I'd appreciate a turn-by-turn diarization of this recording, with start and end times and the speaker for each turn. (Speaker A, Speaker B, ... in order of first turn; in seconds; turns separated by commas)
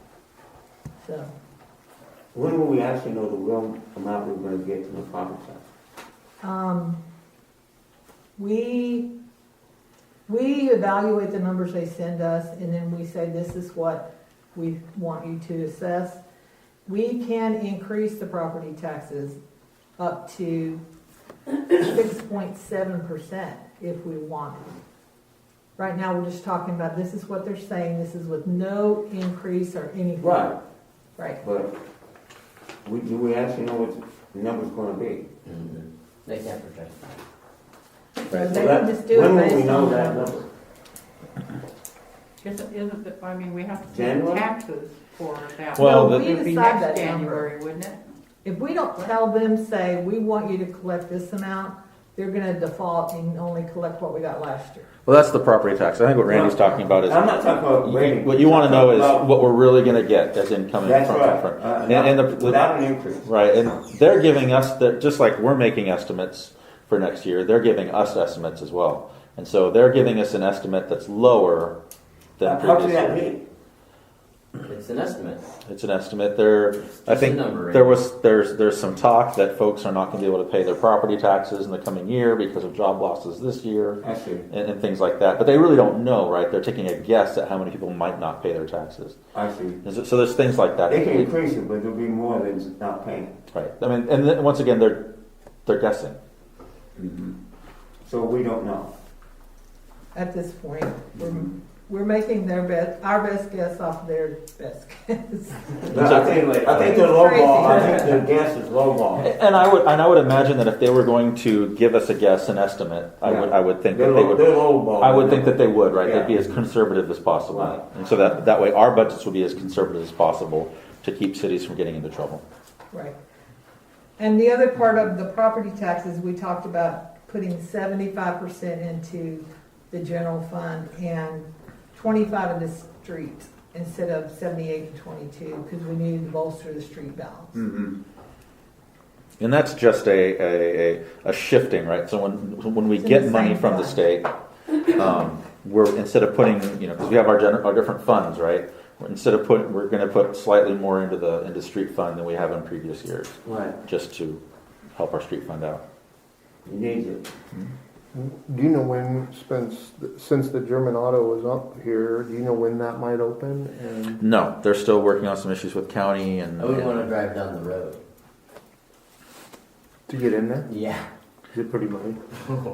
Speaker A: 1.0-1.3, Speaker B: 2.3-5.6, Speaker A: 6.4-7.0, Speaker A: 8.4-9.1, Speaker A: 10.3-16.2, Speaker A: 16.9-19.4, Speaker A: 20.0-20.8, Speaker A: 21.7-24.8, Speaker A: 25.8-30.5, Speaker B: 30.2-30.6, Speaker A: 31.2-31.4, Speaker B: 31.4-31.8, Speaker B: 32.8-35.3, Speaker C: 35.4-37.2, Speaker A: 38.3-40.4, Speaker D: 38.3-38.6, Speaker B: 38.4-40.5, Speaker E: 42.4-48.0, Speaker B: 43.9-44.5, Speaker D: 45.7-46.3, Speaker A: 45.8-47.5, Speaker A: 48.4-54.9, Speaker D: 55.0-62.6, Speaker B: 56.2-59.3, Speaker B: 60.8-63.2, Speaker D: 63.2-71.8, Speaker D: 72.4-73.2, Speaker B: 72.4-73.4, Speaker C: 74.6-75.5, Speaker D: 75.7-89.2, Speaker C: 76.9-78.0, Speaker B: 84.0-84.5, Speaker B: 89.3-89.8, Speaker D: 89.8-91.3, Speaker B: 90.9-93.4, Speaker D: 93.5-95.1, Speaker D: 95.6-96.2, Speaker B: 97.0-97.3, Speaker B: 98.0-98.9, Speaker A: 100.1-108.2, Speaker B: 105.9-109.3, Speaker D: 105.9-106.9, Speaker D: 109.2-122.4, Speaker B: 113.2-116.5, Speaker B: 117.5-117.8, Speaker A: 122.9-123.2, Speaker A: 124.2-137.7, Speaker D: 137.5-137.9, Speaker D: 139.4-144.3, Speaker A: 143.0-144.0, Speaker D: 144.8-154.4, Speaker B: 153.4-153.8, Speaker D: 154.9-155.8, Speaker B: 156.7-157.3, Speaker F: 158.1-164.2, Speaker D: 164.2-167.1, Speaker C: 166.6-168.0, Speaker F: 170.1-170.7, Speaker C: 170.7-171.1, Speaker F: 171.5-172.4